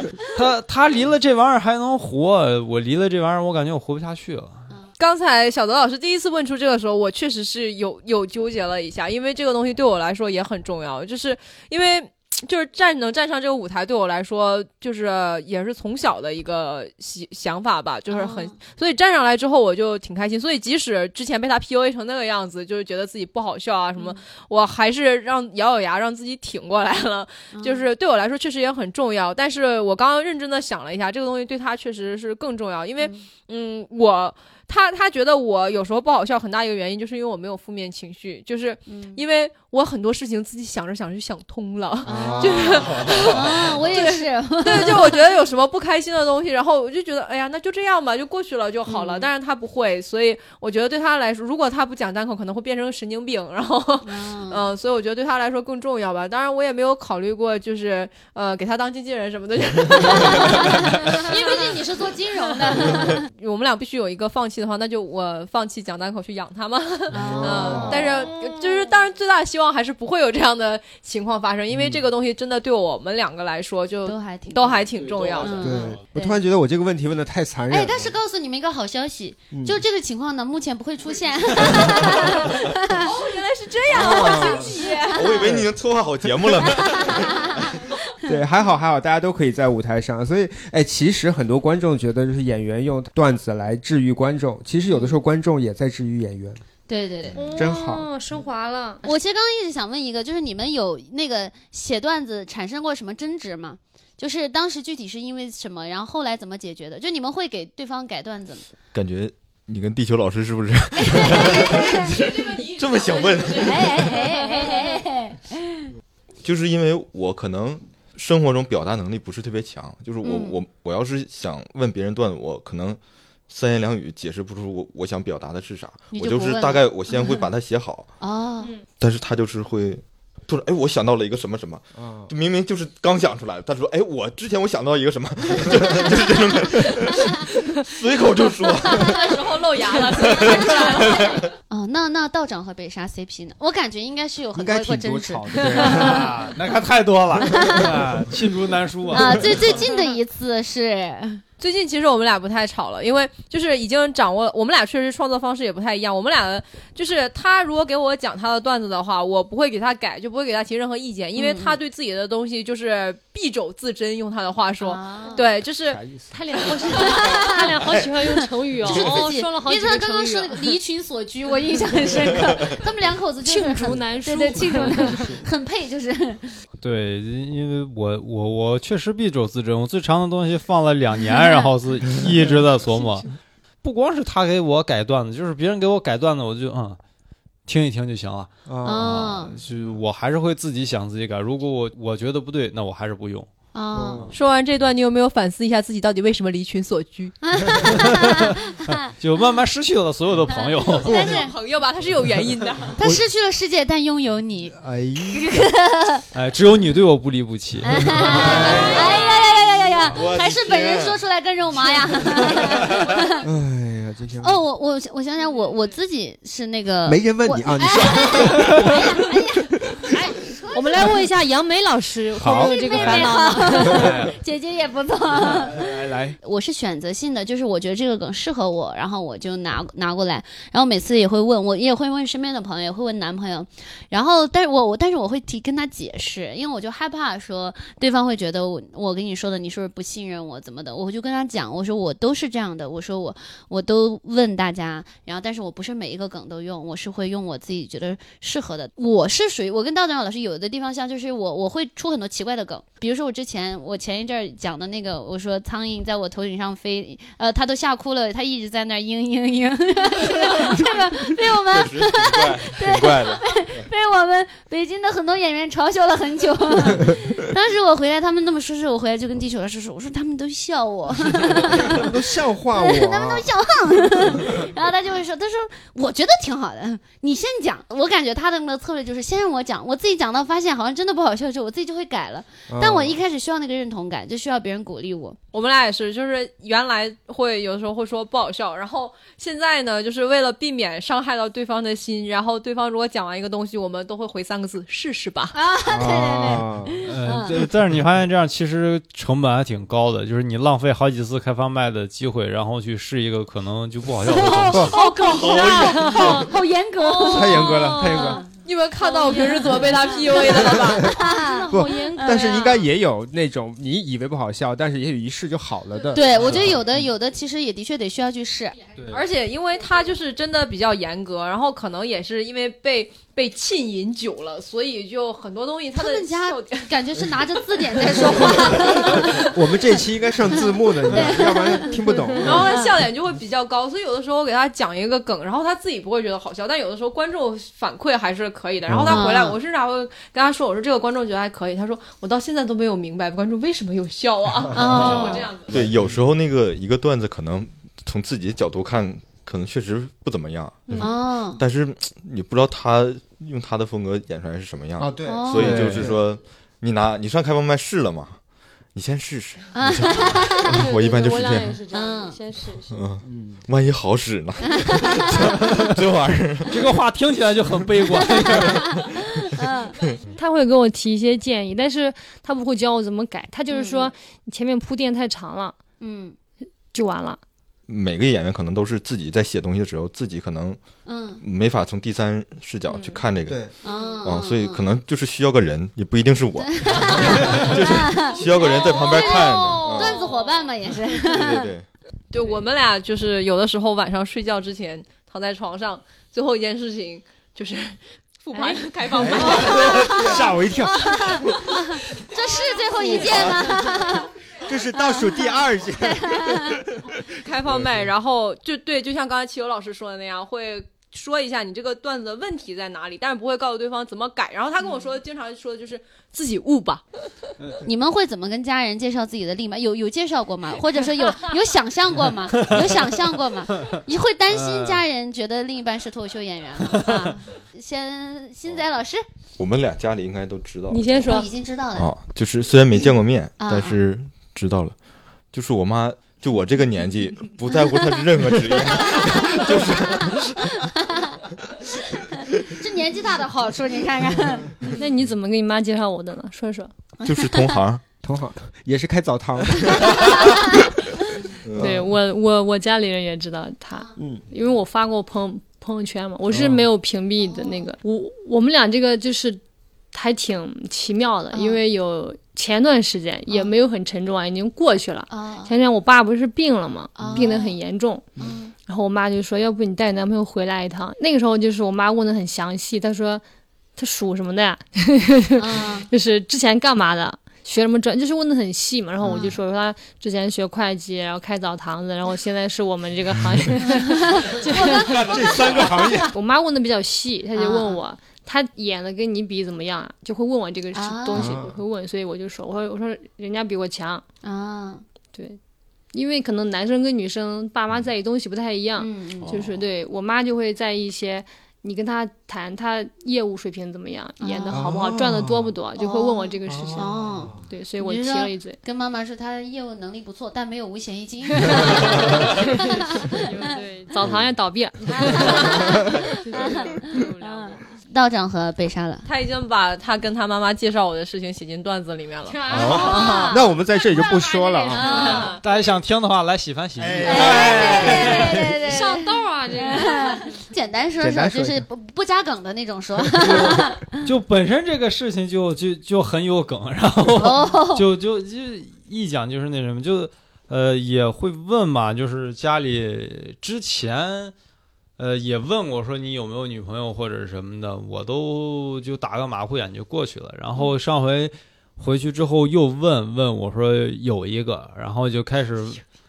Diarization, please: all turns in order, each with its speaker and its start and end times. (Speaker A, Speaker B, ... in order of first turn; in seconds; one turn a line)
Speaker A: 0.2-4.7
Speaker B: 5.0-61.8
Speaker C: 18.1-18.6
Speaker C: 27.5-27.9
Speaker C: 33.0-33.2
Speaker C: 38.9-39.2
Speaker D: 42.0-42.8
Speaker C: 42.0-45.3
Speaker C: 48.9-49.3
Speaker C: 54.0-54.6
Speaker C: 60.1-63.3
Speaker B: 62.6-75.7
Speaker C: 67.1-68.8
Speaker D: 67.1-68.0
Speaker C: 74.0-76.4
Speaker A: 75.0-76.0
Speaker D: 75.6-78.1
Speaker C: 77.7-83.1
Speaker D: 79.5-79.8
Speaker B: 83.0-85.4
Speaker D: 83.9-84.8
Speaker C: 83.9-85.5
Speaker E: 85.1-87.6
Speaker D: 85.4-85.7
Speaker C: 86.6-88.3
Speaker D: 88.2-96.6
Speaker C: 94.9-95.2
Speaker C: 96.9-97.5
Speaker F: 97.3-99.1
Speaker D: 97.5-98.0
Speaker C: 99.0-108.6
Speaker E: 108.9-114.2
Speaker C: 111.0-112.1
Speaker B: 111.6-113.8
Speaker C: 113.6-115.9
Speaker E: 116.4-128.1
Speaker C: 120.2-120.5
Speaker C: 126.1-127.4
Speaker C: 128.2-128.8
Speaker E: 129.0-139.3
Speaker D: 131.9-132.3
Speaker C: 137.2-137.4
Speaker B: 138.9-141.4
Speaker E: 140.2-141.5
Speaker C: 141.7-146.2
Speaker D: 144.5-146.3
Speaker A: 145.9-149.8
Speaker C: 147.5-148.0
Speaker C: 149.1-151.4
Speaker B: 151.6-166.0
Speaker C: 161.3-161.8
Speaker C: 164.8-165.4
Speaker D: 165.8-166.4
Speaker F: 166.3-170.8
Speaker C: 166.8-176.6
Speaker E: 167.4-168.0
Speaker F: 173.4-175.3
Speaker D: 174.5-175.4
Speaker A: 176.8-183.3
Speaker C: 181.3-181.7
Speaker A: 183.8-187.0
Speaker A: 187.7-193.5
Speaker D: 188.7-189.2
Speaker C: 188.8-189.5
Speaker C: 193.7-194.3
Speaker D: 193.9-194.3
Speaker B: 194.3-197.3
Speaker C: 197.4-199.4
Speaker A: 197.8-201.3
Speaker C: 200.5-201.6
Speaker B: 201.0-203.0
Speaker C: 203.0-204.8
Speaker D: 203.0-203.2
Speaker D: 204.7-205.5
Speaker C: 205.3-206.2
Speaker A: 206.3-208.7
Speaker C: 207.8-213.3
Speaker D: 208.2-209.0
Speaker E: 208.2-211.2
Speaker E: 212.0-212.9
Speaker D: 213.4-214.6
Speaker C: 214.4-221.2
Speaker D: 217.0-219.0
Speaker F: 220.1-224.1
Speaker D: 222.3-224.2
Speaker C: 222.4-272.1
Speaker A: 222.9-224.4
Speaker A: 225.4-225.9
Speaker D: 225.4-226.3
Speaker E: 260.3-261.0
Speaker E: 261.5-263.9
Speaker D: 271.8-273.5
Speaker C: 272.8-285.4
Speaker D: 282.7-283.2
Speaker B: 285.5-295.5
Speaker C: 295.5-297.6
Speaker D: 295.9-297.0
Speaker A: 297.0-305.0
Speaker C: 304.2-308.5
Speaker B: 304.9-305.8
Speaker E: 305.2-306.5
Speaker F: 305.5-308.4
Speaker D: 307.2-308.4
Speaker B: 308.6-311.2
Speaker F: 309.0-309.6
Speaker C: 309.2-312.8
Speaker D: 310.5-311.1
Speaker F: 311.1-312.7
Speaker D: 311.7-316.5
Speaker C: 316.1-318.8
Speaker A: 316.3-316.9
Speaker A: 319.0-319.2
Speaker B: 319.1-326.9
Speaker C: 325.9-329.5
Speaker D: 328.3-332.8
Speaker B: 328.6-329.5
Speaker C: 330.5-332.9
Speaker B: 332.4-345.8
Speaker D: 338.9-339.3
Speaker C: 339.1-339.6
Speaker C: 344.7-345.5
Speaker E: 345.7-358.4
Speaker D: 345.7-346.2
Speaker C: 351.0-351.6
Speaker D: 355.0-356.2
Speaker C: 355.2-356.0
Speaker E: 358.9-361.8
Speaker C: 359.7-360.8
Speaker F: 360.7-363.0
Speaker C: 361.9-362.4
Speaker E: 362.9-366.8
Speaker D: 363.2-363.6
Speaker C: 364.7-365.5
Speaker A: 366.7-369.0
Speaker C: 368.3-370.0
Speaker F: 370.3-375.8
Speaker C: 373.7-374.1
Speaker C: 376.0-376.4
Speaker F: 376.9-377.4
Speaker E: 377.9-380.8
Speaker C: 381.1-381.4
Speaker E: 381.4-390.2
Speaker C: 382.9-383.2
Speaker C: 383.8-384.8
Speaker F: 383.9-384.1
Speaker C: 386.6-391.7
Speaker B: 388.5-389.4
Speaker F: 389.5-390.7
Speaker B: 389.9-390.3
Speaker E: 391.2-391.9
Speaker B: 392.3-400.3
Speaker F: 398.5-398.9
Speaker D: 399.1-401.6
Speaker C: 399.7-404.3
Speaker F: 403.0-403.7
Speaker D: 403.0-403.4
Speaker D: 404.6-407.1
Speaker C: 404.9-406.9
Speaker B: 407.4-417.0
Speaker C: 417.8-429.2
Speaker A: 422.6-423.1
Speaker A: 424.5-425.0
Speaker A: 426.8-427.4
Speaker E: 429.6-431.3
Speaker F: 430.9-431.5
Speaker C: 431.2-432.1
Speaker E: 431.9-434.9
Speaker C: 433.6-434.0
Speaker E: 435.5-440.6
Speaker C: 439.2-441.4
Speaker C: 442.2-444.7
Speaker F: 444.9-446.9
Speaker E: 447.2-448.0
Speaker C: 447.3-447.8
Speaker D: 448.2-450.6
Speaker C: 450.1-450.8
Speaker E: 451.6-452.0
Speaker D: 451.7-452.1
Speaker F: 451.7-459.6
Speaker D: 454.2-454.4
Speaker D: 456.5-456.8
Speaker C: 457.4-457.9
Speaker F: 460.1-468.2
Speaker C: 461.5-461.8
Speaker C: 465.3-465.8
Speaker C: 467.1-467.8
Speaker D: 467.2-467.4
Speaker C: 468.4-468.7
Speaker F: 468.9-473.4
Speaker F: 474.0-494.2
Speaker C: 475.6-476.1
Speaker C: 479.2-479.6
Speaker C: 483.9-484.6
Speaker D: 484.7-486.3
Speaker C: 487.6-488.0
Speaker C: 490.9-491.5
Speaker D: 491.3-491.8
Speaker C: 494.4-495.0
Speaker F: 495.3-495.6
Speaker F: 496.1-508.8
Speaker C: 499.0-499.7
Speaker C: 504.4-504.8
Speaker D: 504.7-505.7
Speaker C: 506.0-513.7
Speaker D: 506.6-507.6
Speaker F: 512.4-517.8
Speaker C: 515.1-519.2
Speaker B: 519.2-523.6
Speaker F: 522.4-525.9
Speaker A: 522.7-523.1
Speaker D: 522.7-525.4
Speaker C: 522.8-523.6
Speaker C: 524.9-525.5
Speaker B: 525.1-525.5
Speaker A: 525.6-528.6
Speaker D: 527.0-528.5
Speaker C: 527.2-534.2
Speaker F: 527.6-530.6
Speaker D: 531.2-531.9
Speaker D: 533.4-533.8
Speaker A: 533.4-544.5
Speaker C: 537.3-538.0
Speaker A: 545.2-556.0